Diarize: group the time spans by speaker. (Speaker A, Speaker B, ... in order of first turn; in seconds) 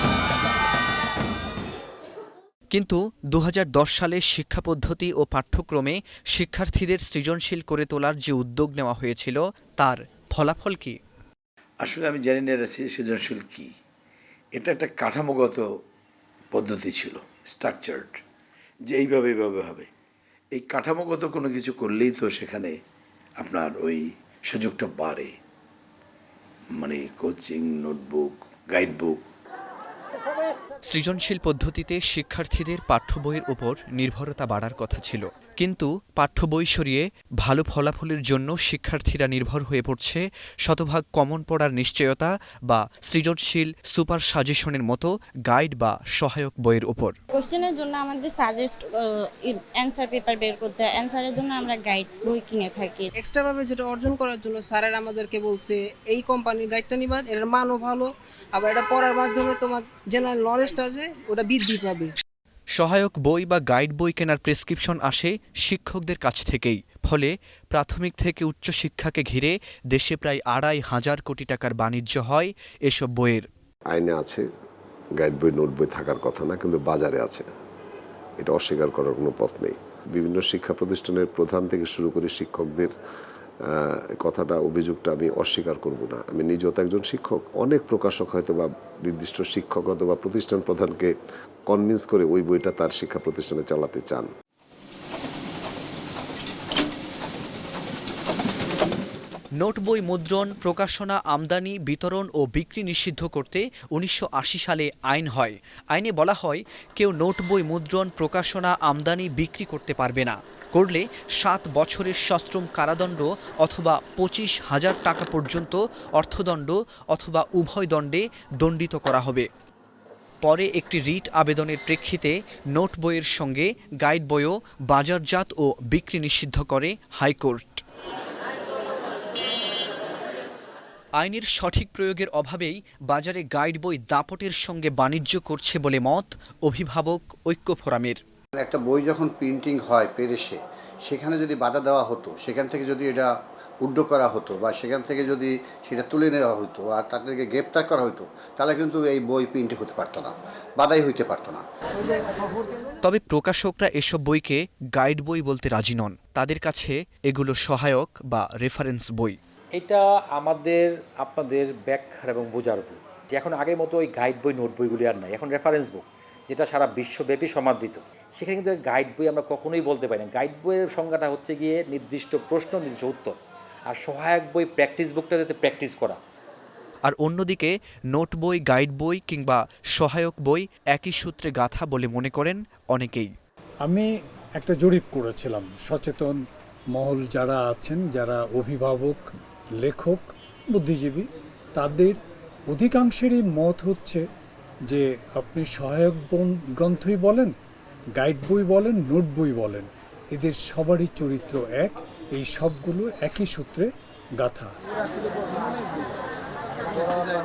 Speaker A: 2.7-11.0, 30.8-47.1, 62.7-73.5, 99.6-119.5, 120.4-127.8, 131.2-138.2, 153.0-159.4, 177.0-183.3
Speaker B: 11.9-13.6, 14.6-15.6, 16.6-18.0, 18.9-19.8, 20.6-22.7, 23.5-23.9, 24.5-25.2, 26.8-28.2, 28.8-29.1
Speaker C: 47.3-53.1
Speaker D: 53.2-62.1
Speaker E: 73.9-74.4, 75.2-77.5, 78.4-82.9, 83.6-91.1, 91.7-94.3
Speaker F: 138.6-151.6
Speaker G: 159.8-173.4, 173.9-176.2
Speaker H: 184.6-186.4, 186.9-189.2, 189.8-192.2, 192.7-194.2, 194.9-197.5, 198.2-203.9, 204.4-204.7